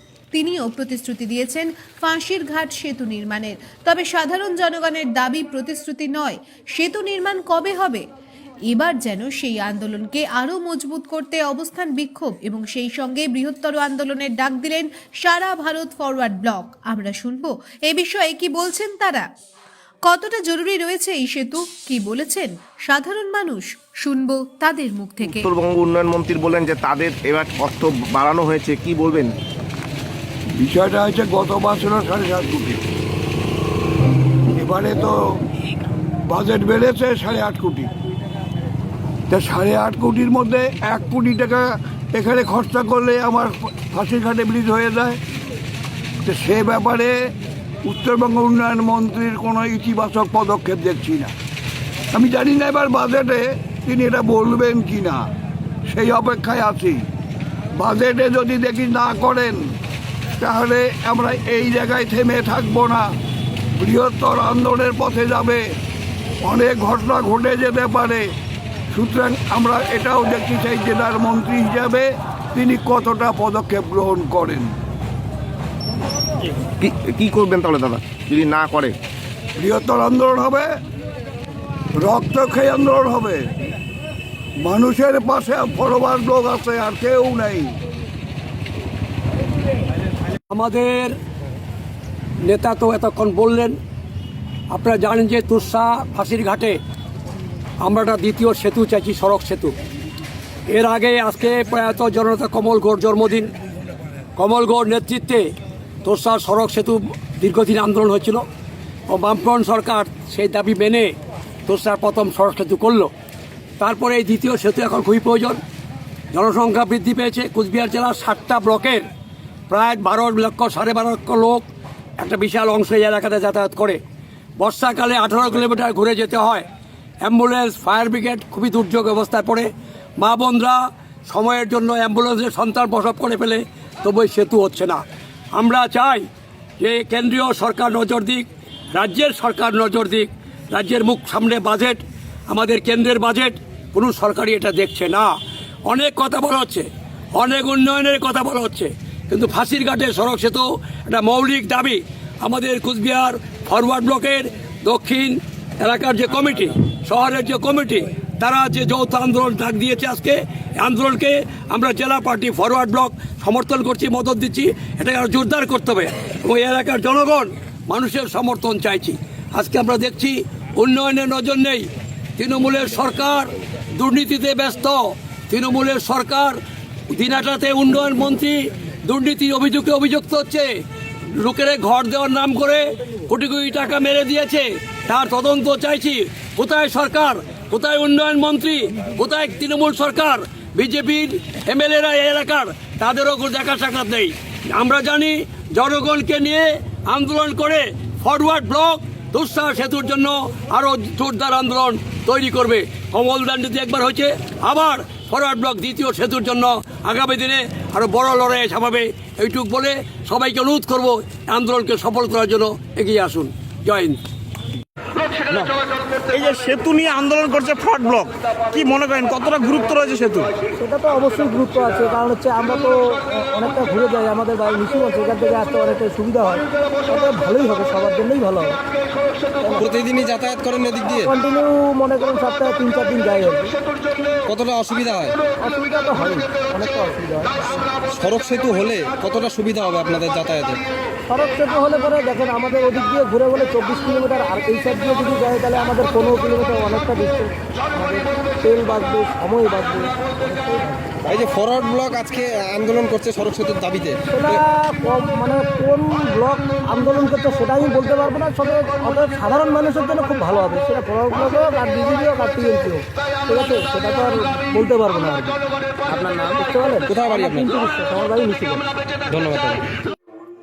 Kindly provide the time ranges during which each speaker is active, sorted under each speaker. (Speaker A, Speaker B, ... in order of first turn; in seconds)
Speaker A: 0.3-8.0, 8.7-19.3, 20.1-25.5
Speaker B: 25.2-29.3, 76.8-79.0
Speaker C: 30.6-32.8, 34.5-35.2, 36.3-37.9, 39.3-45.2, 46.2-47.1, 47.8-51.3, 52.1-55.2, 55.9-57.0, 57.8-59.6, 60.4-63.1, 63.8-65.7, 66.4-68.3, 68.9-74.7, 79.6-80.7, 82.0-83.5, 84.6-87.8
Speaker D: 90.5-91.1, 92.4-93.8, 94.7-96.8, 97.8-99.8, 100.7-103.5, 104.4-105.5, 106.0-108.4, 109.1-111.1, 111.7-113.1, 113.8-115.6, 116.3-119.0, 119.7-121.7, 122.2-124.0, 124.6-126.7, 127.2-135.0, 135.6-136.2, 136.8-145.3, 145.9-171.8, 172.4-176.6, 177.1-180.7, 181.4-214.2
Speaker E: 216.3-220.5
Speaker F: 220.8-228.8, 229.6-229.9, 231.1-233.7, 235.6-237.8, 241.3-251.1, 254.3-265.6, 266.1-268.8
Speaker G: 229.8-231.3, 234.5-235.4, 238.1-240.8, 251.2-254.6, 267.1-267.8, 269.3-269.8